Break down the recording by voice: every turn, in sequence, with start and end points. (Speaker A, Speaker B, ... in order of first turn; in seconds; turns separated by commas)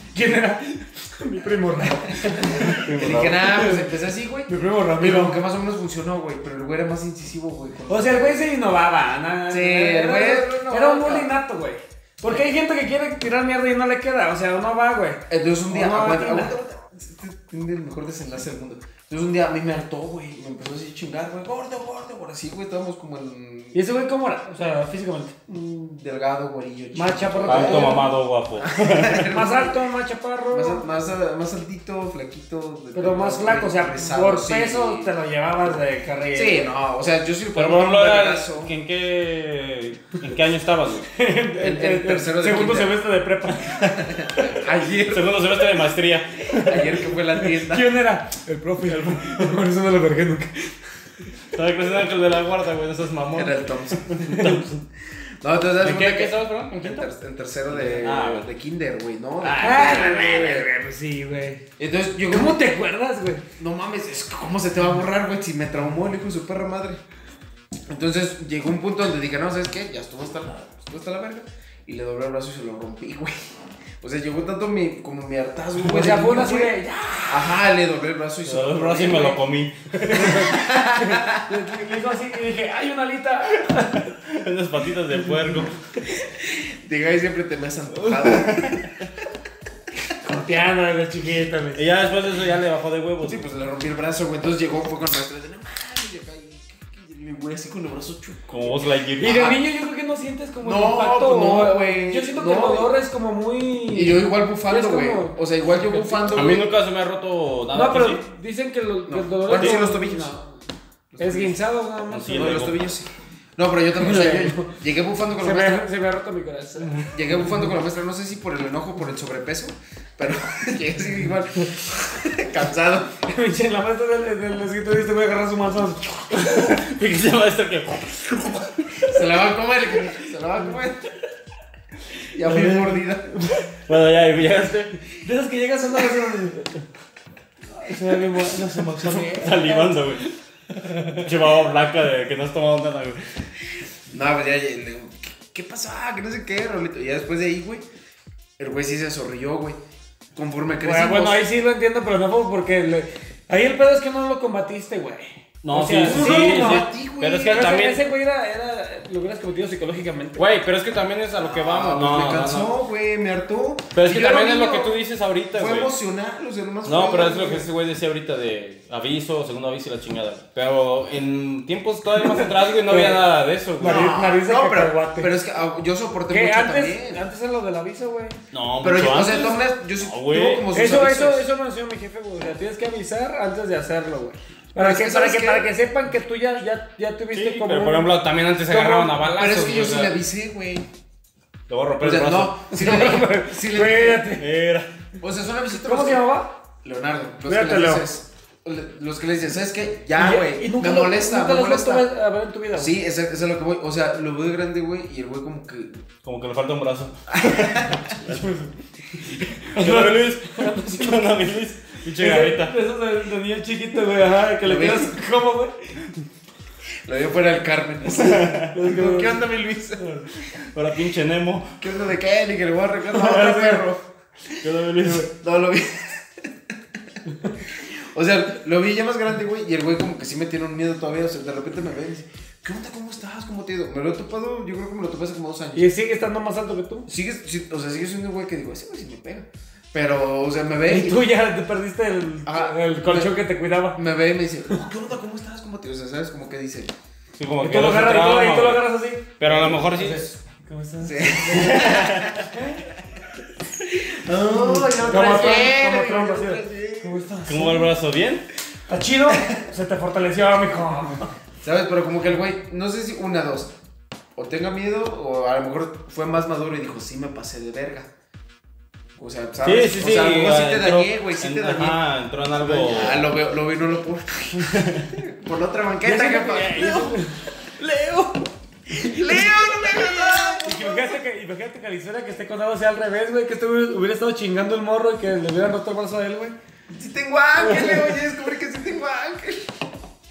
Speaker A: 0.1-3.9, Speaker B: 2.2-8.5, Speaker C: 2.6-3.5, Speaker A: 4.5-5.4, Speaker A: 7.9-16.5, Speaker B: 9.5-11.3, Speaker B: 15.3-23.8, Speaker A: 23.7-25.4, Speaker B: 25.5-29.8, Speaker A: 26.9-28.1, Speaker C: 27.5-29.4, Speaker A: 29.3-30.9, Speaker B: 30.5-35.1, Speaker A: 32.9-36.7, Speaker B: 36.3-38.7, Speaker C: 37.5-41.1, Speaker A: 41.1-43.8, Speaker B: 41.6-43.0, Speaker B: 43.8-45.7, Speaker C: 45.0-46.9, Speaker B: 46.6-47.9, Speaker A: 47.4-50.7, Speaker C: 51.5-54.8, Speaker B: 53.3-54.0, Speaker A: 54.2-54.6, Speaker B: 55.4-60.7, Speaker C: 55.8-57.1, Speaker C: 57.7-58.5, Speaker A: 59.4-61.6, Speaker B: 61.8-62.6, Speaker A: 62.3-63.4, Speaker B: 63.6-67.0, Speaker B: 67.9-73.3, Speaker B: 74.0-76.7, Speaker A: 75.8-77.5, Speaker B: 77.3-79.4, Speaker C: 78.5-80.4, Speaker A: 80.0-84.1, Speaker B: 80.1-81.5, Speaker C: 84.1-85.8, Speaker B: 86.3-88.9, Speaker C: 88.0-88.8, Speaker A: 90.2-91.9, Speaker C: 91.8-93.4, Speaker B: 93.2-99.5, Speaker C: 98.5-99.6, Speaker A: 99.2-105.4, Speaker B: 100.6-102.9, Speaker B: 103.9-106.7, Speaker A: 106.1-106.3, Speaker C: 106.2-108.2, Speaker A: 107.7-110.5, Speaker B: 109.1-110.3, Speaker B: 111.1-111.6, Speaker A: 111.2-112.6, Speaker C: 112.1-112.8, Speaker B: 112.3-115.9, Speaker A: 114.0-114.7, Speaker A: 115.4-117.0, Speaker C: 116.8-117.1, Speaker B: 117.1-123.2, Speaker A: 123.2-126.8, Speaker C: 126.4-129.1, Speaker B: 129.1-131.1, Speaker B: 132.3-133.3, Speaker C: 132.5-133.0, Speaker A: 133.3-133.7, Speaker C: 133.8-134.9, Speaker A: 135.2-136.7, Speaker A: 137.7-139.9, Speaker C: 138.6-140.2, Speaker A: 140.8-141.3, Speaker C: 141.1-143.2, Speaker B: 144.1-147.8, Speaker B: 148.6-149.8, Speaker B: 150.3-151.5, Speaker A: 150.8-156.9, Speaker C: 155.6-158.0, Speaker B: 156.0-157.8, Speaker A: 157.4-160.4, Speaker C: 160.3-162.7, Speaker B: 161.4-165.0, Speaker C: 163.9-165.9, Speaker B: 165.5-167.7, Speaker C: 166.8-174.1, Speaker A: 172.2-173.3, Speaker A: 173.8-175.3, Speaker B: 173.8-177.2, Speaker A: 176.3-178.4, Speaker C: 178.5-180.7, Speaker B: 178.8-181.5, Speaker A: 180.7-188.1, Speaker B: 184.8-185.7, Speaker C: 187.3-190.1, Speaker A: 188.7-189.3, Speaker B: 189.3-190.9, Speaker C: 191.7-192.6, Speaker B: 192.0-194.3, Speaker A: 192.7-194.5, Speaker C: 194.4-194.9, Speaker B: 195.2-196.2, Speaker A: 195.7-196.5, Speaker B: 196.8-202.1, Speaker A: 197.4-198.0, Speaker A: 200.2-203.0, Speaker B: 202.7-206.0, Speaker C: 206.2-208.4, Speaker B: 207.3-208.1, Speaker A: 208.1-211.4, Speaker C: 209.6-212.7, Speaker A: 212.2-215.7, Speaker B: 214.6-215.2, Speaker B: 217.0-220.1, Speaker C: 218.1-218.7, Speaker A: 218.7-219.4, Speaker A: 220.0-220.3, Speaker C: 220.4-221.7, Speaker B: 221.8-224.0, Speaker A: 223.1-223.8, Speaker C: 224.6-225.3, Speaker B: 225.0-226.5, Speaker A: 227.3-227.6, Speaker B: 227.7-235.9, Speaker A: 235.7-237.1, Speaker B: 237.1-241.2, Speaker A: 240.9-244.0, Speaker B: 242.4-243.3, Speaker B: 243.9-246.9, Speaker C: 247.4-248.9, Speaker A: 247.6-252.8, Speaker C: 249.4-250.3, Speaker B: 249.5-250.2, Speaker B: 251.0-252.5, Speaker C: 251.5-252.4, Speaker B: 253.9-257.2, Speaker A: 254.5-257.9, Speaker C: 257.4-258.5, Speaker A: 258.9-261.3, Speaker B: 261.6-263.7, Speaker B: 264.3-268.1, Speaker B: 269.2-272.0, Speaker C: 269.6-273.2, Speaker B: 272.6-281.2, Speaker C: 274.7-275.1, Speaker A: 276.0-277.3, Speaker A: 279.0-279.3, Speaker A: 280.6-286.5, Speaker B: 286.9-289.7